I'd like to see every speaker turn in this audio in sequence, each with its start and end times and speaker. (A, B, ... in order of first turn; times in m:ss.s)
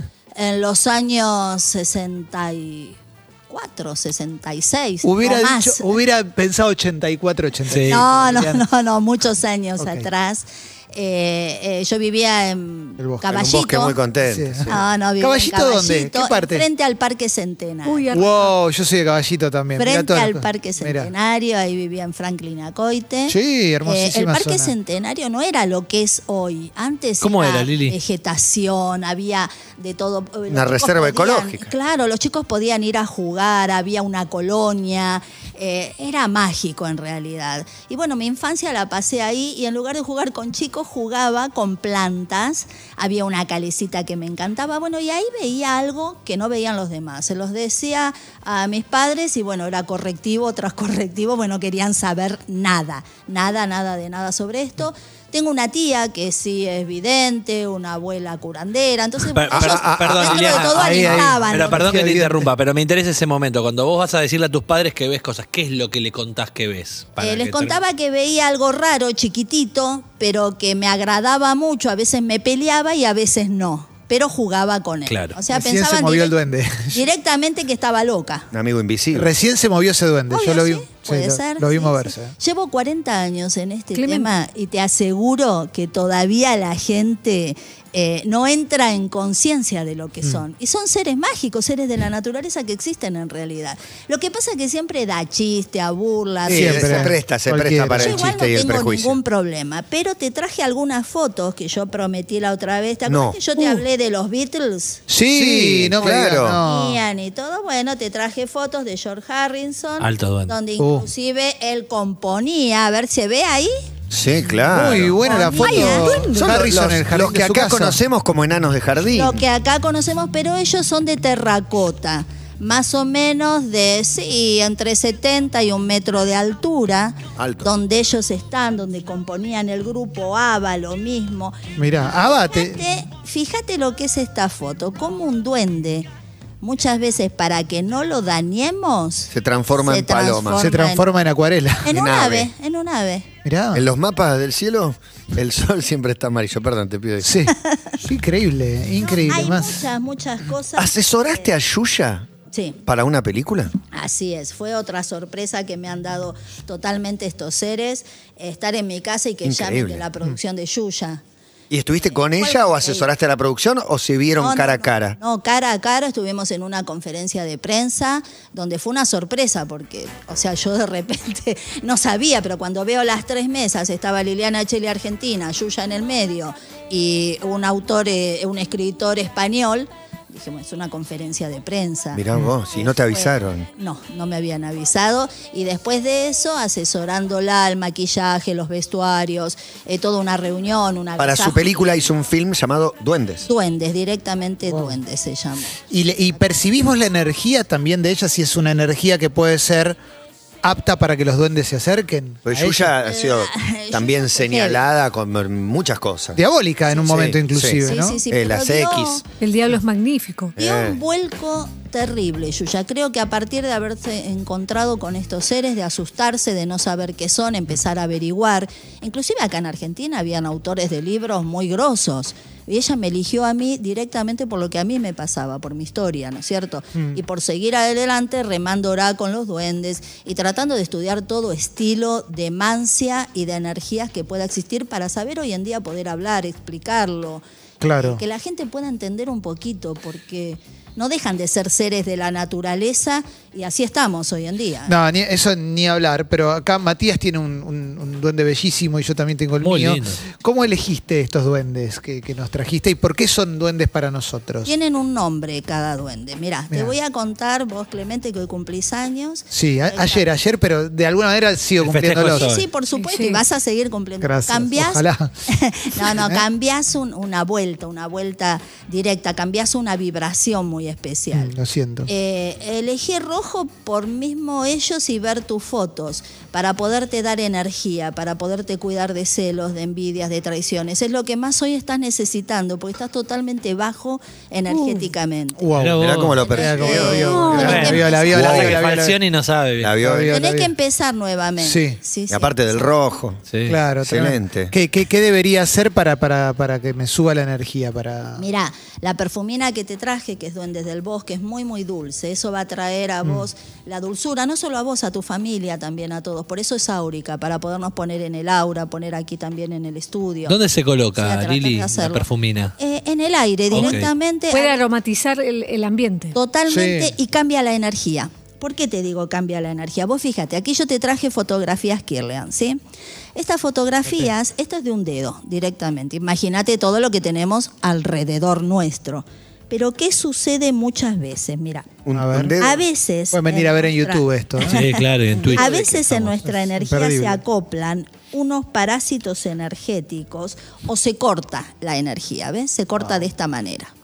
0:00.4-0:03.0 A
0:03.5-0:06.0 A
0:05.0-0:08.7 B
0:07.7-0:08.0 C
0:07.9-0:14.0 A
0:09.8-0:10.1 B
0:13.0-0:13.3 B
0:13.3-0:14.8 D
0:14.2-0:16.7 B
0:14.7-0:18.2 A
0:17.8-0:18.6 E
0:18.1-0:21.1 B
0:19.8-1:02.0 A
0:23.3-0:24.7 B
0:27.2-0:28.0 C
0:30.5-0:31.7 D
0:59.3-1:07.8 C
0:59.5-1:02.5 B
1:07.2-1:16.3 A
1:15.1-1:15.4 C
1:15.5-1:17.1 B
1:16.9-1:18.5 A
1:18.5-1:19.3 D
1:19.1-1:22.3 B
1:20.3-1:37.2 A
1:24.0-1:24.3 E
1:36.5-1:38.3 B
1:36.5-1:39.2 D
1:38.0-1:45.0 A
1:43.1-1:43.4 D
1:45.1-1:47.0 B
1:45.3-1:46.6 D
1:46.6-1:53.7 A
1:50.0-1:50.6 C
1:50.8-1:51.1 B
1:54.1-1:55.2 D
1:54.7-1:58.0 B
1:55.2-1:56.3 A
1:55.4-1:56.6 E
1:56.4-1:59.4 D
1:59.1-2:16.1 A
2:07.4-2:07.7 D
2:11.8-2:12.9 B
2:16.6-2:21.1 A
2:19.3-2:20.6 D
2:20.6-2:22.0 B
2:21.8-2:23.3 A
2:21.9-2:22.5 D
2:23.4-2:23.9 B
2:23.7-2:27.5 D
2:27.2-2:29.8 B
2:27.5-2:28.0 A
2:29.0-2:31.5 A
2:30.8-2:32.3 D
2:32.5-2:32.8 A
2:32.9-2:33.8 D
2:33.9-2:41.2 A
2:39.4-2:40.1 D
2:41.7-2:45.2 D
2:42.2-2:43.1 A
2:44.4-3:11.6 A
3:02.1-3:03.7 D
3:11.2-3:13.5 D
3:13.5-3:15.8 A
3:14.7-3:15.0 B
3:15.9-3:20.0 B
3:20.6-3:23.0 B
3:22.4-3:26.4 D
3:23.0-3:24.8 A
3:26.4-3:28.2 B
3:27.0-3:29.2 D
3:27.8-3:29.2 A
3:29.4-3:30.6 E
3:30.6-3:31.0 D
3:30.6-3:57.4 A
3:47.0-3:47.2 B
3:57.8-3:58.2 B
3:58.0-4:05.0 A
4:04.9-4:14.7 B
4:09.6-4:10.2 C
4:14.6-4:20.3 A
4:16.7-4:17.0 B
4:19.5-4:22.5 B
4:21.8-4:22.7 C
4:22.3-4:31.5 A
4:23.0-4:23.4 E
4:24.2-4:25.3 B
4:25.9-4:26.5 B
4:31.3-4:32.1 B
4:32.1-4:45.6 A
4:44.7-4:45.1 E
4:45.6-4:49.2 B
4:45.8-4:46.4 C
4:46.0-4:48.8 D
4:46.4-4:48.3 A
4:47.1-4:48.0 E
4:47.5-4:50.0 C
4:49.8-4:50.3 D
4:50.0-4:50.7 B
4:50.3-4:52.6 A
4:51.6-4:52.0 B
4:52.3-4:53.4 D
4:53.5-4:53.8 C
4:53.7-4:58.5 B
4:54.0-4:54.7 D
4:58.4-5:10.6 A
5:10.5-5:12.7 C
5:11.2-5:12.3 A
5:12.8-5:14.9 A
5:13.7-5:14.1 C
5:13.7-5:16.4 E
5:16.3-5:22.8 A
5:16.7-5:17.2 B
5:23.4-5:31.9 A
5:32.0-5:32.9 D
5:32.1-5:32.6 B
5:32.6-5:43.9 A
5:33.3-5:35.8 B
5:34.7-5:36.3 C
5:36.3-5:37.4 B